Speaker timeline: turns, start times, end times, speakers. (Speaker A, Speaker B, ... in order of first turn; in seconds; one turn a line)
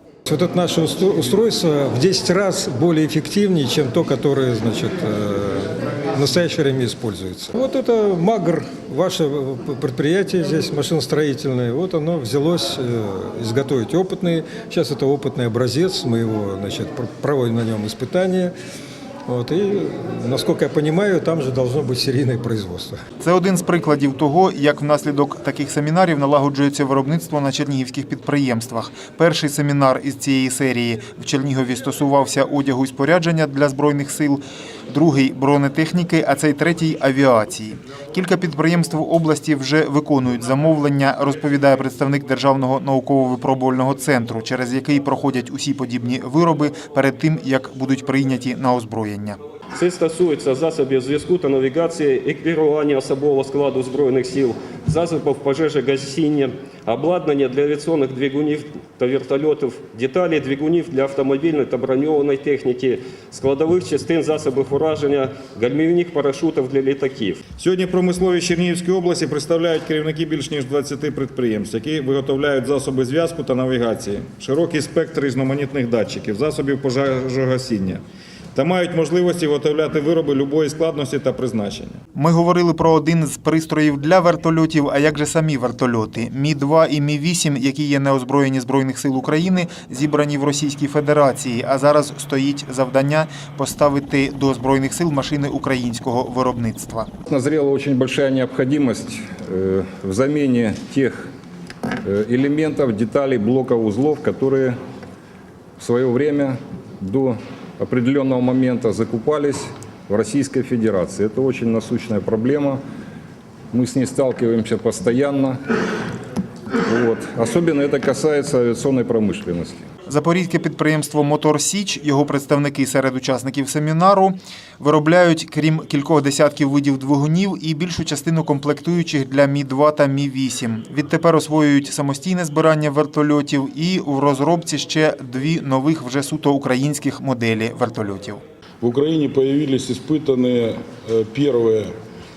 Speaker A: 0.3-18.5
Speaker A: 19.3-23.0
Speaker B: 23.2-49.4
Speaker C: 49.8-67.4
Speaker D: 67.6-78.0
Speaker D: 78.5-82.0
Speaker B: 82.2-97.1
Speaker E: 97.3-101.3
Speaker E: 102.0-104.8
Speaker E: 105.8-112.8
Speaker E: 113.7-115.6
Speaker E: 116.8-119.8
Speaker B: 120.1-138.4
Speaker F: 138.8-141.9